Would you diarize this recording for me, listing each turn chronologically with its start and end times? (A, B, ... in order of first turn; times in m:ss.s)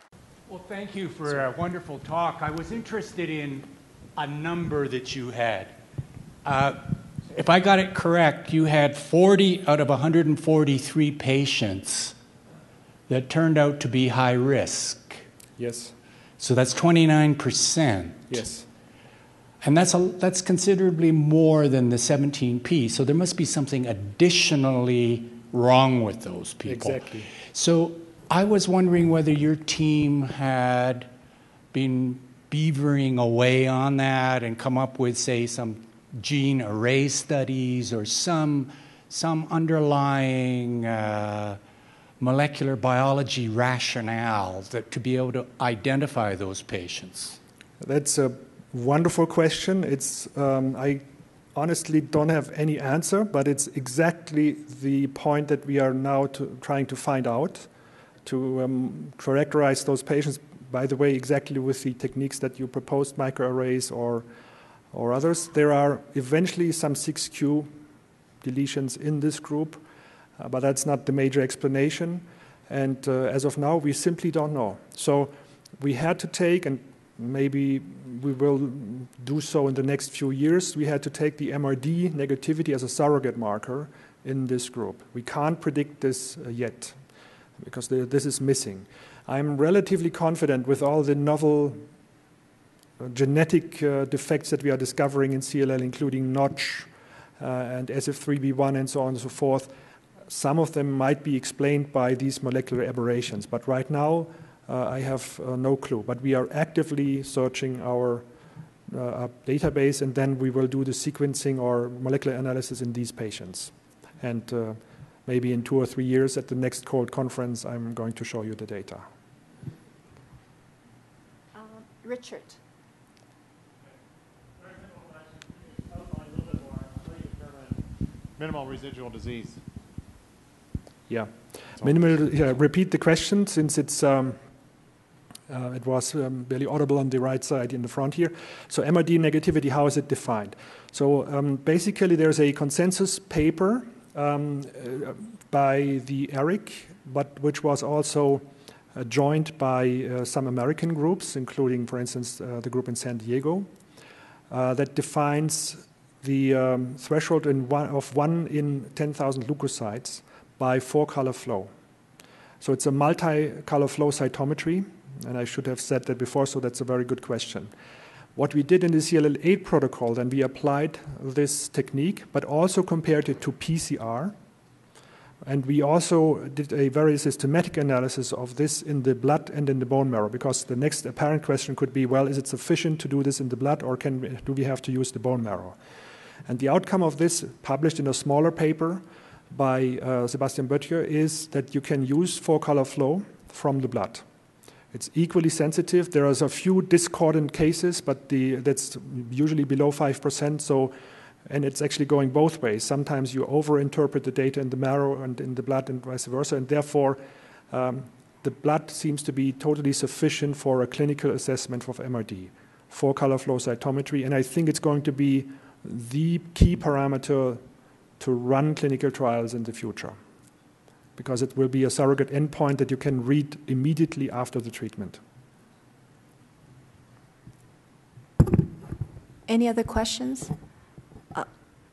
0:00.5-0:05.7 A
0:06.4-0:12.2 A
0:13.1-0:15.2 A
0:15.6-0:15.9 B
0:16.4-0:18.3 A
0:18.3-0:18.7 B
0:19.6-0:31.1 A
0:26.7-0:27.3 B
0:31.7-0:41.6 A
0:42.2-0:47.4 A
0:47.8-0:57.7 B
0:58.2-1:04.2 B
1:04.9-1:07.7 B
1:08.4-1:09.8 B
1:10.4-1:27.0 B
1:27.6-1:31.8 B
1:33.0-1:39.7 B
1:40.3-1:48.2 B
1:48.9-1:59.0 B
2:01.6-2:02.6 C
2:04.6-2:07.9 D
2:08.4-2:09.6 D
2:11.1-2:14.4 B
2:15.5-2:33.7 B
2:34.5-2:41.7 B
2:42.6-2:47.7 B
2:48.4-2:54.4 B
2:55.4-3:05.8 B
3:06.5-3:14.2 B
3:14.9-3:20.9 B
3:21.5-3:27.2 B
3:27.7-3:37.6 B
3:38.2-3:40.2 B
3:41.2-3:45.2 B
3:49.5-3:50.5 C